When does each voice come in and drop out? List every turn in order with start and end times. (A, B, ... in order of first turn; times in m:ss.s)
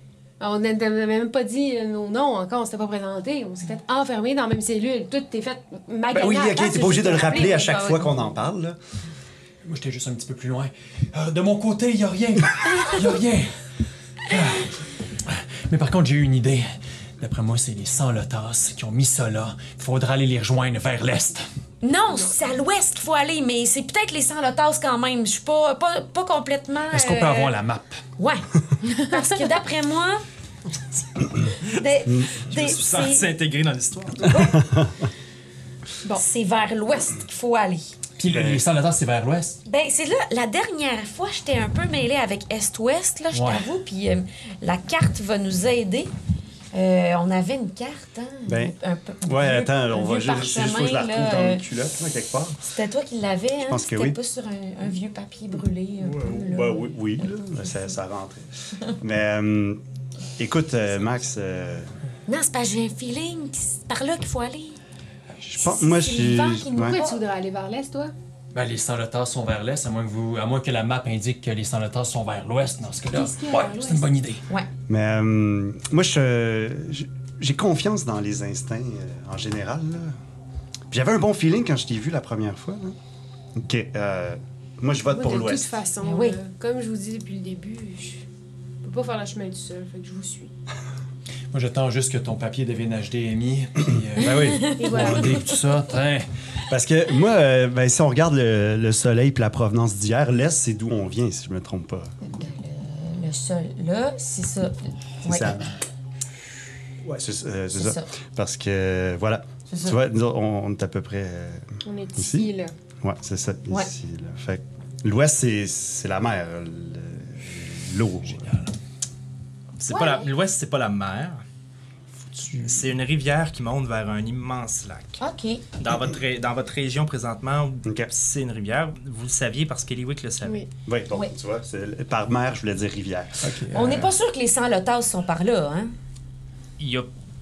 0:00.4-0:07.7 A
0:06.1-0:08.8 B
0:06.7-0:08.4 C
0:09.6-0:13.6 D
0:14.3-0:21.5 D
0:21.8-0:27.6 C
0:26.9-0:28.0 D
0:28.2-0:30.2 C
0:31.5-0:34.3 E
0:31.7-0:33.3 C
0:34.2-0:34.7 C
0:34.5-0:34.9 B
0:36.1-0:38.0 C
0:38.2-0:39.6 D
0:38.3-0:38.6 B
0:39.6-0:46.1 C
0:43.3-0:43.7 D
0:46.7-0:51.6 C
0:48.5-0:52.6 B
0:52.7-0:57.3 C
0:53.7-0:54.2 B
0:56.0-0:59.8 B
1:00.4-1:01.9 B
1:02.3-1:04.8 C
1:05.5-1:07.0 B
1:05.5-1:07.2 C
1:06.8-1:08.1 A
1:08.5-1:14.4 D
1:13.1-1:14.1 A
1:14.9-1:20.2 B
1:20.9-1:23.0 B
1:23.6-1:25.8 B
1:25.1-1:28.3 A
1:26.0-1:26.4 C
1:28.8-1:30.5 A
1:31.5-1:36.3 D
1:34.2-1:35.3 C
1:34.2-1:35.3 B
1:34.8-1:35.5 A
1:36.7-1:42.1 B
1:42.2-1:45.6 C
1:45.2-1:45.7 B
1:47.0-1:52.5 B
1:47.7-1:48.1 C
1:49.7-1:50.0 C
1:51.8-1:52.7 A
1:53.0-1:58.6 B
1:58.4-1:58.7 D
1:59.8-2:01.4 E
1:59.9-2:00.3 C
2:02.4-2:02.9 D
2:02.6-2:05.2 E
2:05.2-2:05.6 C
2:05.8-2:10.6 E
2:10.4-2:10.7 A
2:10.9-2:13.7 B
2:13.4-2:14.1 D
2:13.7-2:15.9 C
2:16.8-2:17.1 E